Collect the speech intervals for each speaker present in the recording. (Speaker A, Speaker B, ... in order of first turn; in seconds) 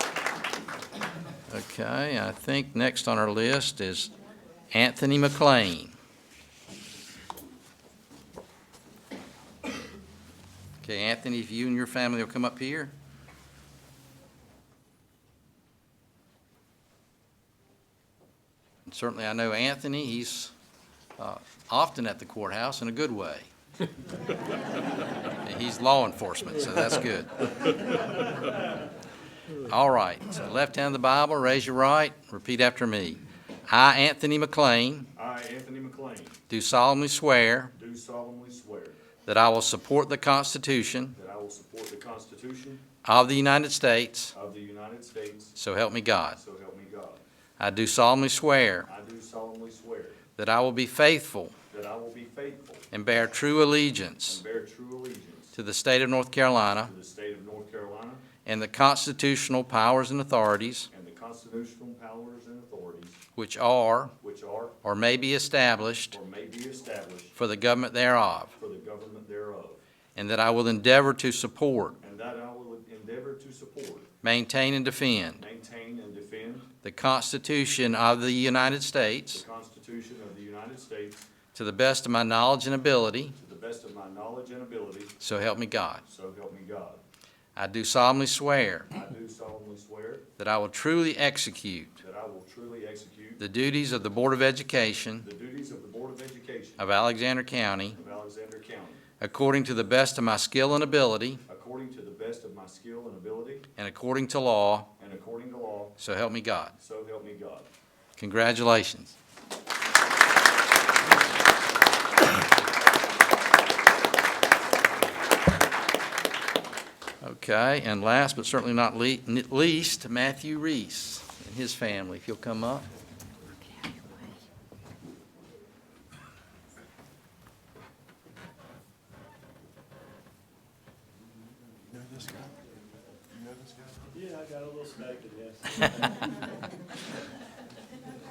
Speaker A: 1.5-4.1, 4.7-5.9, 10.8-12.9, 18.9-20.5, 21.2-23.5, 25.4-27.5, 29.6-35.1, 36.5-37.7, 39.3-41.2, 43.0-44.3, 45.6-46.4, 47.6-48.9, 50.4-51.5, 52.9-54.4, 55.5-56.9, 58.5-60.9, 63.4-64.1, 64.8-66.2, 67.4-68.5, 70.2-72.0, 74.2-75.4, 76.8-79.4, 81.5-83.3, 85.2-86.0, 87.6-88.9, 90.4-92.0, 93.4-95.3, 96.8-98.0, 99.2-101.4, 103.8-104.9, 106.0-106.8, 108.2-109.2, 117.2-122.9
Speaker B: 35.1-36.4, 37.7-39.0, 41.2-42.8, 44.3-45.6, 46.4-47.2, 48.9-50.2, 51.7-52.9, 54.3-55.5, 56.9-58.2, 60.9-63.2, 64.2-64.8, 66.1-67.3, 68.6-69.8, 72.0-74.1, 75.4-76.7, 79.3-81.2, 83.4-85.1, 86.0-87.0, 88.9-90.2, 92.0-93.4, 95.2-96.8, 98.0-99.0, 101.5-103.7, 105.0-106.0, 106.8-107.7
Speaker C: 134.1-136.3